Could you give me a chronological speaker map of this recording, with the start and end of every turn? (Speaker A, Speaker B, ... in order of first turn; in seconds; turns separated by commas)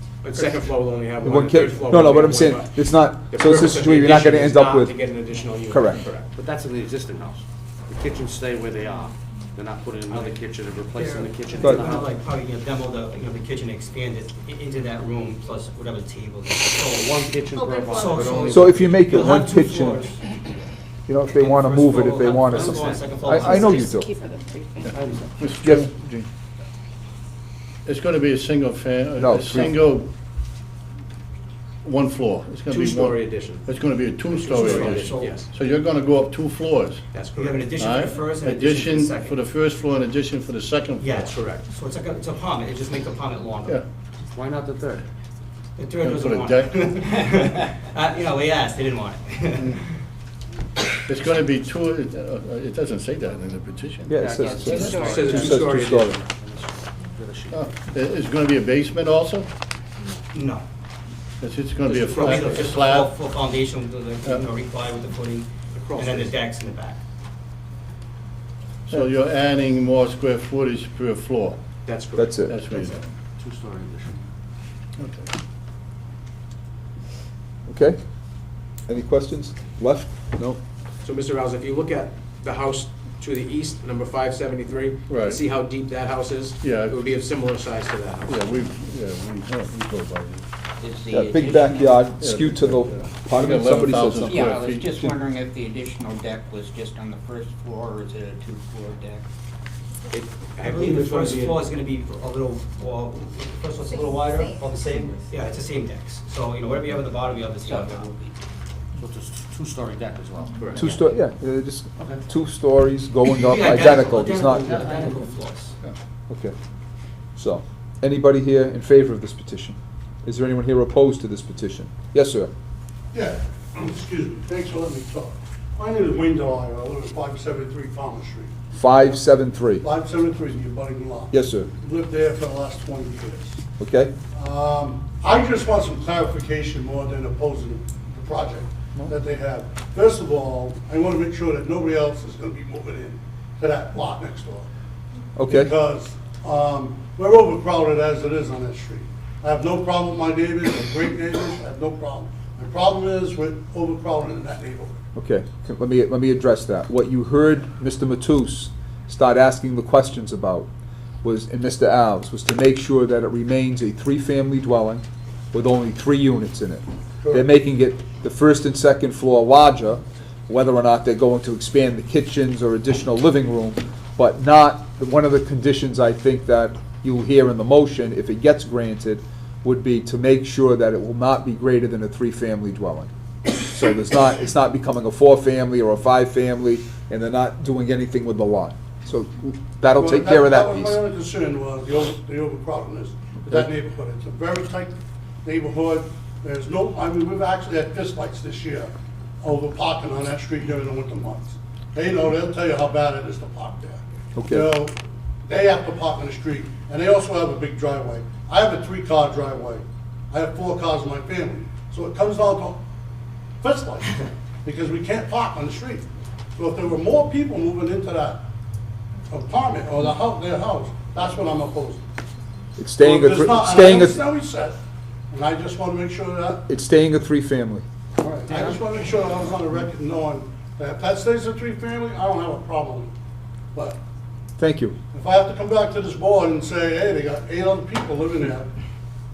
Speaker A: 0.2-6.3, Speaker B: 1.2-4.9, Speaker B: 5.7-6.0, Speaker C: 6.4-12.1, Speaker D: 11.0-17.2, Speaker B: 11.6-11.9, Speaker C: 16.9-19.0, Speaker E: 17.5-18.3, Speaker D: 17.9-20.2, Speaker B: 18.5-20.1, Speaker B: 21.1-24.1, Speaker D: 21.3-23.9, Speaker C: 22.6-23.0, Speaker E: 23.9-24.4, Speaker C: 24.8-25.3, Speaker F: 25.4-25.9, Speaker B: 25.6-26.3, Speaker F: 27.9-30.1, Speaker B: 29.2-29.8, Speaker F: 31.8-37.0, Speaker A: 32.7-33.6, Speaker D: 34.4-35.4, Speaker A: 34.7-35.5, Speaker A: 37.1-37.8, Speaker D: 37.4-39.4, Speaker F: 37.8-41.3, Speaker D: 41.0-43.8, Speaker A: 41.3-41.7, Speaker G: 44.4-45.0, Speaker D: 45.8-49.8, Speaker F: 46.0-46.7, Speaker F: 51.1-54.9, Speaker B: 54.1-56.2, Speaker C: 54.2-57.7, Speaker A: 55.1-56.2, Speaker F: 57.5-59.5, Speaker D: 60.3-60.6, Speaker F: 61.4-63.1, Speaker D: 61.9-67.0, Speaker A: 65.7-66.4, Speaker F: 68.9-71.6, Speaker A: 71.8-72.9, Speaker B: 72.2-72.6, Speaker F: 72.5-73.0, Speaker C: 73.4-74.2, Speaker F: 75.0-75.3, Speaker B: 77.7-78.0, Speaker B: 78.9-80.6, Speaker A: 81.0-88.4, Speaker F: 85.1-85.4, Speaker F: 86.6-87.0, Speaker F: 88.3-90.5, Speaker G: 90.8-92.1, Speaker B: 91.1-95.1, Speaker F: 92.2-94.9, Speaker G: 94.2-99.3, Speaker A: 100.1-101.6, Speaker D: 100.6-108.1, Speaker E: 103.8-104.6, Speaker G: 107.6-108.3, Speaker C: 109.0-110.6, Speaker A: 110.6-110.9, Speaker B: 110.8-114.9, Speaker D: 113.3-115.7, Speaker B: 116.3-116.5, Speaker B: 117.3-122.5, Speaker H: 123.1-128.5, Speaker B: 128.7-129.8, Speaker H: 129.8-133.6, Speaker B: 131.3-131.7, Speaker B: 133.8-134.1, Speaker H: 134.3-144.7, Speaker B: 145.4-145.7, Speaker H: 145.5-155.0, Speaker B: 155.2-160.7, Speaker B: 161.2-183.1, Speaker H: 167.2-167.5, Speaker B: 183.6-191.0, Speaker H: 190.0-204.9, Speaker B: 204.3-204.7, Speaker H: 205.5-212.8, Speaker H: 213.6-216.0, Speaker H: 216.6-218.4, Speaker H: 219.3-222.0, Speaker B: 222.8-224.2, Speaker H: 223.0-224.8, Speaker H: 225.3-226.7, Speaker B: 226.7-227.8, Speaker H: 228.2-233.1, Speaker H: 233.7-234.0, Speaker B: 234.6-235.0, Speaker H: 235.1-238.7